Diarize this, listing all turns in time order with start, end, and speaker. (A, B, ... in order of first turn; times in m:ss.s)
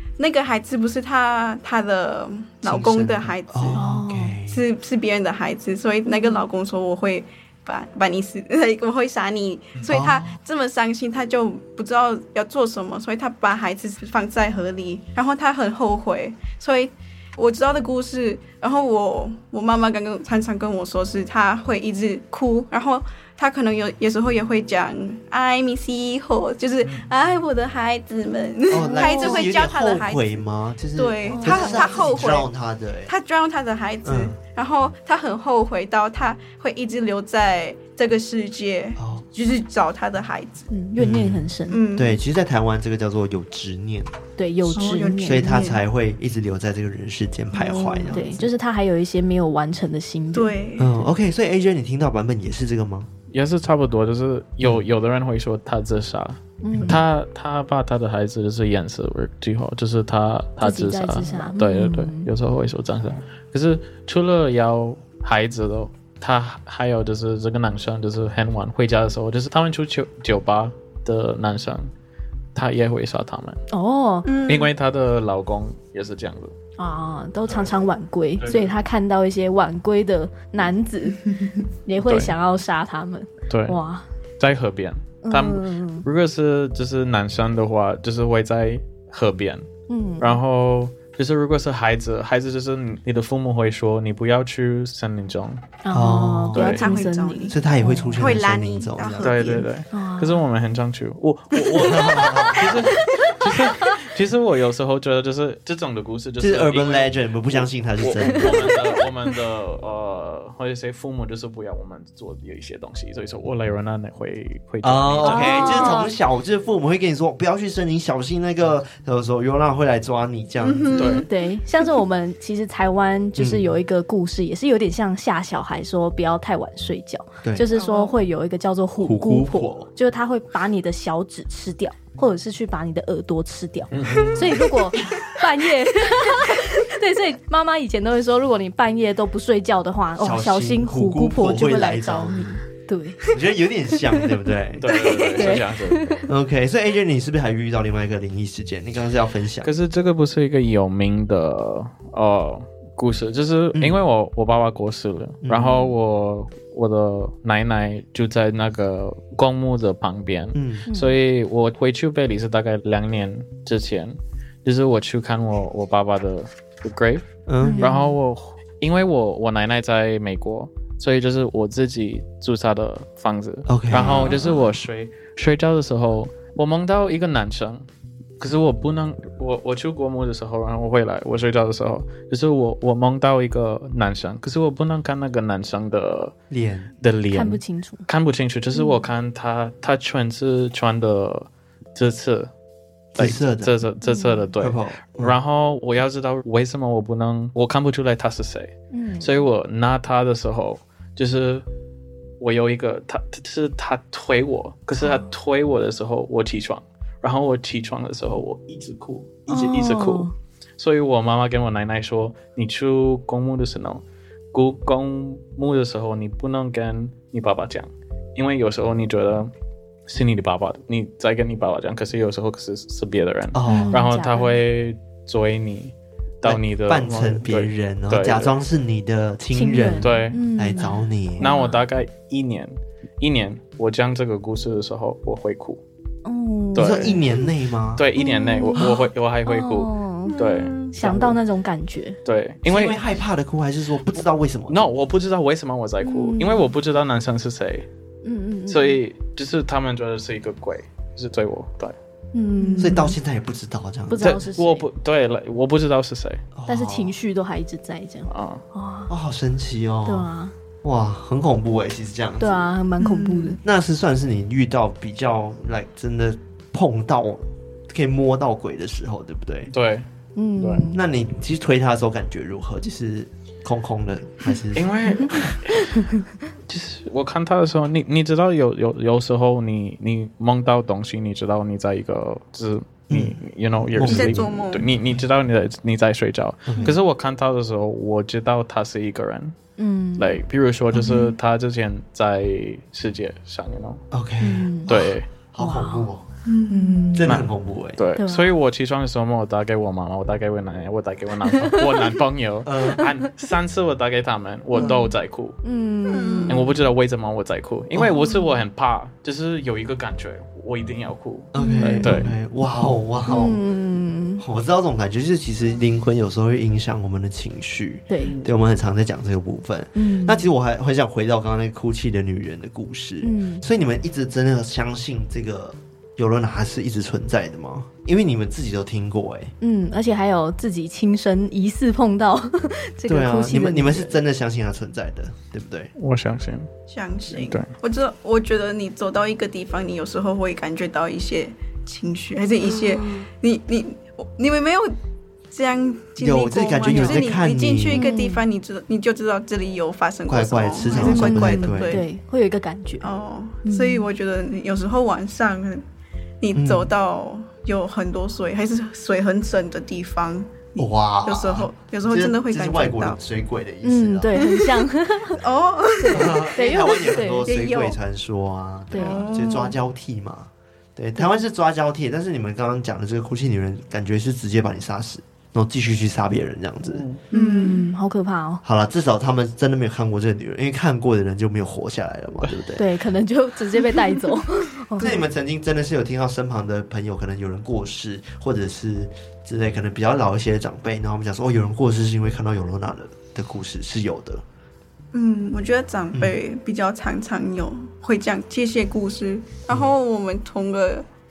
0:00.2-0:03.8 A
0:02.6-0:04.6 B
0:03.7-0:04.4 C
0:04.5-0:30.4 A
0:06.1-0:06.4 C
0:09.9-0:10.3 B
0:28.7-0:33.1 B
0:28.8-0:29.5 C
0:31.0-0:32.5 A
0:31.3-0:32.0 C
0:33.1-0:40.7 A
0:34.0-0:34.4 B
0:39.0-0:39.2 B
0:40.7-0:41.8 C
0:41.0-0:44.2 B
0:41.7-0:42.2 A
0:44.4-0:45.7 C
0:44.7-0:45.8 A
0:45.2-0:48.5 B
0:47.5-0:50.5 C
0:50.3-0:51.0 A
0:50.8-0:53.1 B
0:53.3-1:11.9 D
0:56.6-0:57.0 C
0:56.7-0:57.0 B
1:00.6-1:02.3 C
1:12.6-1:13.6 D
1:13.7-1:14.3 C
1:14.2-1:14.7 A
1:14.5-1:16.5 D
1:16.8-1:21.3 C
1:18.4-1:18.7 D
1:21.9-1:24.1 C
1:22.0-1:22.4 D
1:23.5-1:23.8 D
1:24.4-1:29.7 D
1:25.2-1:26.1 C
1:29.9-1:30.4 C
1:30.2-1:35.6 D
1:35.8-1:38.4 C
1:35.9-1:36.8 B
1:36.5-1:36.9 D
1:36.7-1:37.6 A
1:37.5-1:39.6 B
1:38.2-1:39.7 A
1:39.2-1:56.0 D
1:39.9-1:40.4 C
1:41.8-1:42.8 B
1:46.4-1:48.8 B
1:54.8-2:01.2 B
1:55.2-1:56.1 C
2:00.6-2:01.3 A
2:00.9-2:01.3 D
2:01.3-2:23.2 C
2:03.4-2:03.8 B
2:07.4-2:07.7 B
2:07.7-2:08.2 A
2:09.0-2:09.9 B
2:13.9-2:14.5 D
2:14.1-2:14.6 B
2:20.2-2:22.5 B
2:23.3-2:25.1 B
2:24.8-2:26.2 D
2:24.9-2:25.6 A
2:25.3-2:26.2 C
2:26.3-2:29.7 B
2:29.6-2:57.8 D
2:33.7-2:34.0 B
2:35.4-2:35.9 B
2:40.5-2:40.9 B
2:40.9-2:41.2 C
2:47.5-2:47.9 B
2:47.6-2:48.2 C
2:53.7-2:54.4 B
2:54.0-2:54.5 C
2:58.4-3:06.3 D
3:06.5-3:06.9 B
3:07.0-3:12.5 D
3:07.3-3:08.1 C
3:08.8-3:09.0 C
3:13.2-3:21.6 D
3:13.2-3:13.7 B
3:14.0-3:14.5 C
3:14.6-3:15.4 B
3:18.9-3:19.4 C
3:22.4-3:39.5 D
3:25.0-3:25.3 C
3:29.5-3:30.3 C
3:40.1-3:48.6 D
3:43.5-3:44.0 B
3:43.7-3:44.6 C
3:46.4-3:51.5 B
3:49.5-3:51.8 C
3:50.0-3:50.4 D
3:51.4-3:55.8 D
3:56.2-3:57.3 C
3:56.7-3:57.2 D
3:56.8-3:58.1 B
3:58.0-4:01.4 D
3:58.2-4:02.2 C
4:00.3-4:00.6 A
4:02.2-4:03.0 D
4:02.6-4:04.9 B
4:04.7-4:07.9 D
4:06.0-4:06.7 C
4:08.2-4:09.0 C
4:08.7-4:12.0 D
4:12.3-4:13.2 C
4:12.6-4:12.9 A
4:12.8-4:14.4 B
4:14.1-4:14.9 C
4:14.2-4:16.4 D
4:16.6-4:17.1 B
4:16.7-4:19.1 C
4:18.3-4:18.6 D
4:19.1-4:20.3 B
4:20.1-4:20.5 C
4:20.8-4:22.7 B
4:22.4-4:23.6 C
4:23.0-4:23.6 A
4:23.6-4:29.7 B
4:29.7-4:30.1 D
4:30.4-4:31.0 C
4:30.6-4:30.8 D
4:30.9-4:35.5 B
4:34.8-4:36.1 D
4:36.7-4:49.6 D
4:43.1-4:43.4 B
4:43.9-4:44.5 B
4:44.1-4:44.9 A
4:46.7-4:47.0 B
4:49.8-4:50.4 C
4:50.2-4:54.0 D
4:50.9-4:51.3 C
4:54.1-4:56.3 B
4:54.4-4:54.9 C
4:54.9-4:55.3 D
4:55.6-4:56.1 C
4:56.5-4:57.0 A
4:56.7-4:57.4 C
4:57.1-4:58.0 B
4:57.2-5:05.6 D
4:58.2-4:58.6 C
5:01.6-5:02.0 C
5:02.6-5:03.1 B
5:05.6-5:06.6 C
5:06.1-5:06.6 A
5:06.5-5:12.3 D
5:07.9-5:08.3 B
5:11.5-5:13.6 B
5:11.6-5:12.3 C
5:13.3-5:14.4 C
5:14.4-5:29.5 B
5:18.1-5:18.3 C
5:18.2-5:18.5 D
5:20.0-5:20.5 C
5:23.2-5:23.6 C
5:29.6-5:34.2 C
5:33.1-5:35.9 B
5:36.0-5:36.7 D
5:36.9-5:45.0 A
5:37.3-5:37.7 D
5:42.7-5:43.2 C
5:45.5-5:52.0 A
5:46.2-5:48.1 B
5:46.9-5:47.3 C
5:47.9-5:48.4 C
5:50.3-5:52.0 B
5:50.9-5:53.1 C
5:53.0-5:55.8 A
5:53.6-5:54.1 C
5:56.4-6:03.2 A
5:56.5-5:56.9 B
6:00.8-6:04.4 B
6:03.8-6:05.4 C
6:04.4-6:04.8 A
6:05.3-6:08.0 A
6:06.0-6:07.5 C
6:06.1-6:17.1 B
6:08.9-6:09.2 C
6:08.9-6:09.8 A
6:16.8-6:17.2 D
6:17.3-6:17.8 A
6:17.3-6:18.6 C
6:18.6-6:22.8 B
6:22.8-6:25.2 C
6:25.0-6:34.4 B
6:35.1-6:41.0 A